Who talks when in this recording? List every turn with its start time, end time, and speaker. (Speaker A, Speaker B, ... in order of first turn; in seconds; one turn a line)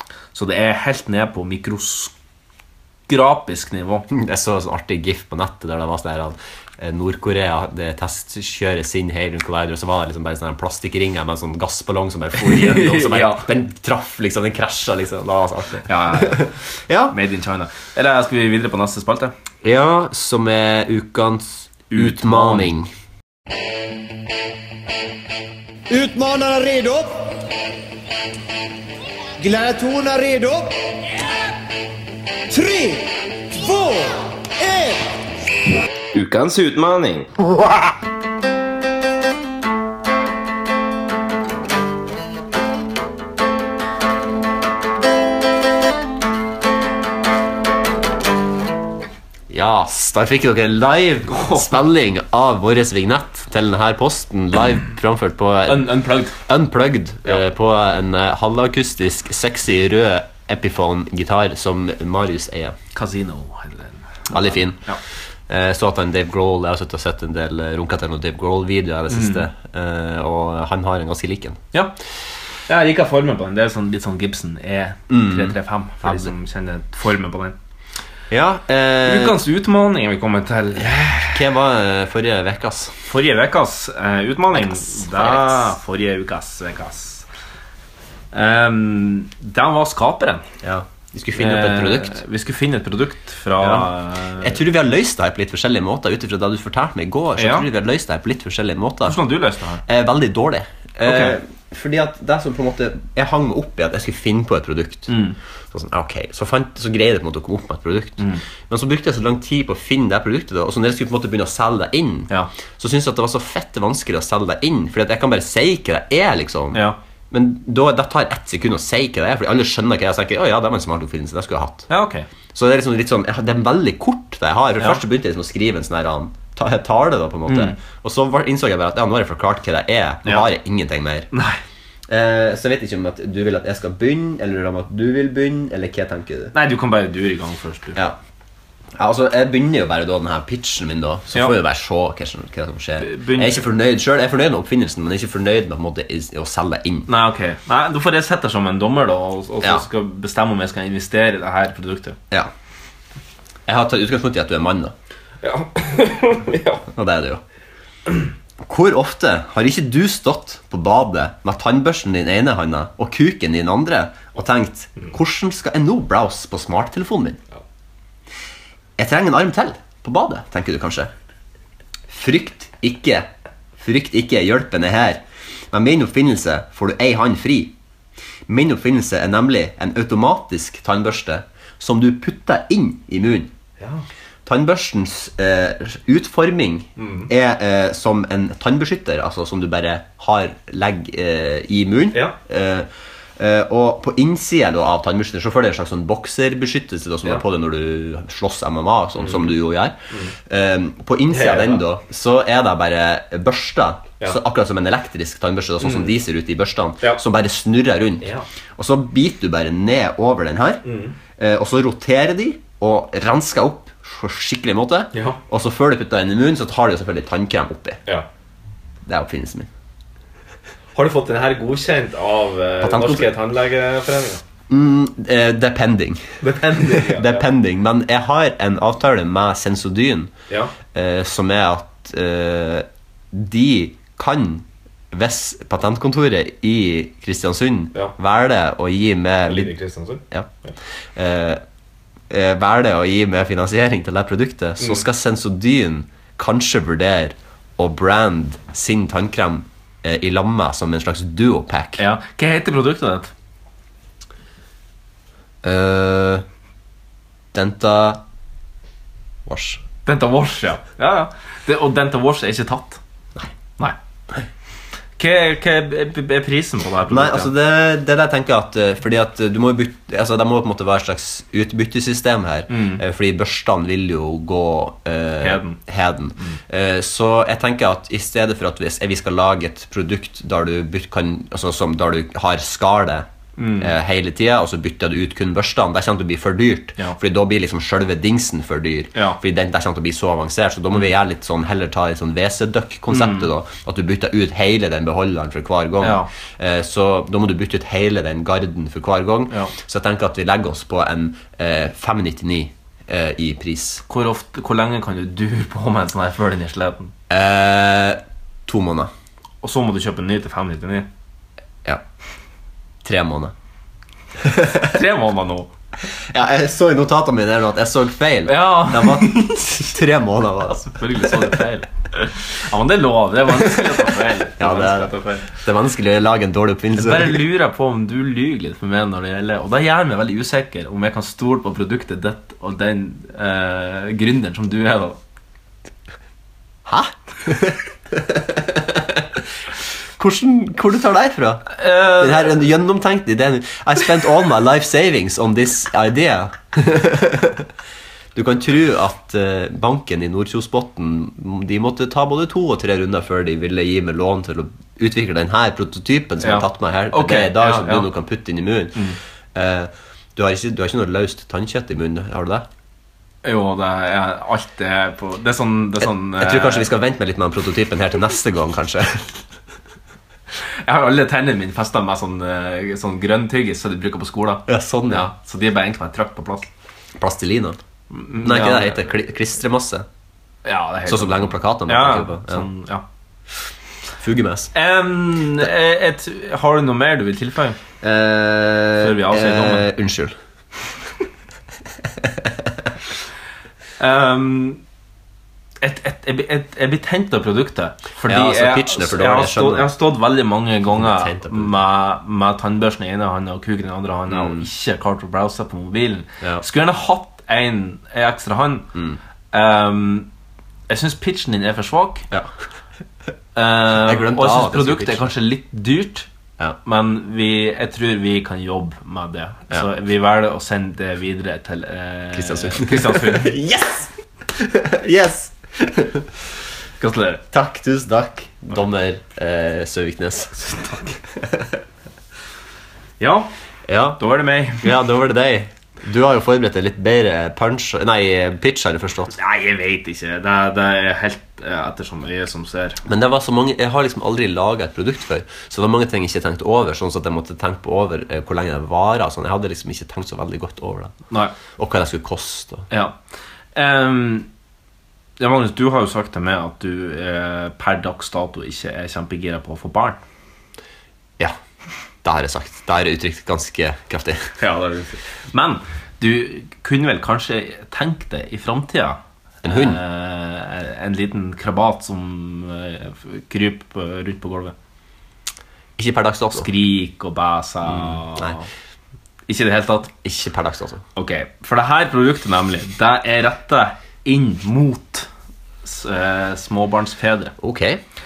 Speaker A: 0.3-2.1
Speaker A: 3.1-4.1
Speaker B: 4.1-17.1
Speaker A: 12.4-13.5
Speaker A: 15.9-16.5
Speaker A: 17.1-19.3
Speaker B: 19.6-22.9
Speaker A: 21.9-22.7
Speaker C: 25.9-27.4
Speaker C: 29.4-30.8
Speaker C: 32.5-35.0
Speaker A: 36.1-37.3
Speaker B: 49.5-62.8
Speaker A: 51.3-51.7
Speaker A: 55.6-56.4
Speaker A: 62.9-65.0
Speaker B: 64.3-64.9
Speaker B: 65.5-71.6
Speaker A: 69.1-69.5
Speaker A: 72.7-77.5
Speaker B: 75.1-76.3
Speaker B: 78.3-79.4
Speaker A: 79.0-81.4
Speaker B: 81.3-83.0
Speaker A: 83.0-87.2
Speaker B: 84.5-85.8
Speaker A: 88.3-90.4
Speaker B: 90.6-92.2
Speaker A: 91.3-94.6
Speaker B: 93.6-99.2
Speaker A: 97.3-97.7
Speaker A: 99.0-99.8
Speaker B: 99.8-121.9
Speaker A: 101.0-101.4
Speaker A: 105.1-105.4
Speaker A: 116.7-117.0
Speaker A: 121.9-122.3
Speaker B: 122.5-131.3
Speaker A: 127.5-127.8
Speaker A: 131.3-131.6
Speaker B: 132.1-136.5
Speaker A: 136.5-138.0
Speaker B: 138.9-147.1
Speaker A: 143.0-143.7
Speaker A: 147.1-152.2
Speaker B: 153.7-154.9
Speaker A: 155.4-156.8
Speaker B: 156.9-157.4
Speaker B: 158.6-167.4
Speaker B: 169.0-171.1
Speaker B: 172.1-177.7
Speaker B: 178.5-183.5
Speaker A: 183.8-184.1
Speaker B: 184.4-210.8
Speaker A: 187.0-187.3
Speaker A: 199.2-199.5
Speaker A: 201.3-201.8
Speaker A: 205.8-206.1
Speaker A: 210.8-211.1
Speaker B: 211.4-218.0
Speaker A: 215.1-215.4
Speaker B: 219.1-219.7
Speaker A: 220.9-224.4
Speaker B: 222.8-223.4
Speaker B: 224.7-230.3
Speaker A: 226.4-227.5
Speaker B: 230.9-239.7
Speaker A: 239.4-240.7
Speaker B: 241.1-241.6
Speaker B: 242.3-252.0
Speaker A: 252.0-253.3
Speaker B: 255.6-256.4
Speaker B: 257.5-258.2
Speaker B: 259.4-259.8
Speaker A: 260.0-263.0
Speaker A: 265.2-267.5
Speaker B: 267.1-304.0
Speaker A: 272.7-273.0
Speaker A: 275.4-275.8
Speaker A: 283.6-283.9
Speaker A: 293.1-293.5
Speaker A: 296.0-296.3
Speaker A: 304.1-307.1
Speaker B: 307.3-309.1
Speaker A: 309.6-311.1
Speaker B: 313.0-313.5
Speaker B: 314.4-314.9
Speaker A: 314.9-315.7
Speaker B: 316.2-321.6
Speaker A: 318.5-319.8
Speaker A: 320.8-325.5
Speaker B: 323.6-327.4
Speaker A: 326.9-335.2
Speaker B: 336.9-339.4
Speaker B: 340.2-347.7
Speaker A: 341.7-342.6
Speaker B: 348.3-362.6
Speaker A: 356.4-358.1
Speaker A: 363.4-366.9
Speaker B: 366.0-369.4
Speaker A: 370.9-376.7
Speaker B: 374.7-375.3
Speaker B: 377.2-377.8
Speaker A: 378.1-379.0
Speaker B: 378.4-380.1
Speaker A: 380.6-383.0
Speaker B: 381.1-382.7
Speaker B: 384.2-384.7
Speaker A: 384.7-387.8
Speaker B: 388.0-390.3
Speaker A: 389.0-389.9
Speaker A: 394.0-394.8
Speaker A: 395.8-408.9
Speaker B: 398.2-399.9
Speaker B: 400.9-401.8
Speaker B: 404.3-404.6
Speaker B: 408.9-409.2
Speaker A: 409.5-410.3
Speaker A: 410.9-412.3
Speaker A: 413.5-416.3
Speaker B: 414.0-415.3
Speaker A: 416.8-423.5
Speaker B: 422.3-426.3
Speaker A: 427.0-427.4
Speaker B: 427.5-430.6
Speaker A: 430.6-431.2
Speaker B: 431.4-431.6
Speaker A: 433.2-433.5
Speaker B: 433.9-434.2
Speaker A: 434.2-434.9
Speaker B: 434.8-439.3
Speaker A: 439.3-443.0
Speaker B: 443.0-451.1
Speaker B: 451.8-452.9
Speaker A: 452.9-453.1
Speaker A: 453.7-454.5
Speaker A: 455.4-460.2
Speaker B: 462.2-464.6
Speaker A: 464.6-474.7
Speaker B: 469.6-470.0
Speaker B: 476.0-476.7
Speaker A: 476.5-478.7
Speaker B: 477.9-478.6
Speaker A: 479.5-480.1
Speaker B: 480.2-481.0
Speaker A: 481.1-485.3
Speaker A: 485.8-487.5
Speaker B: 487.6-488.0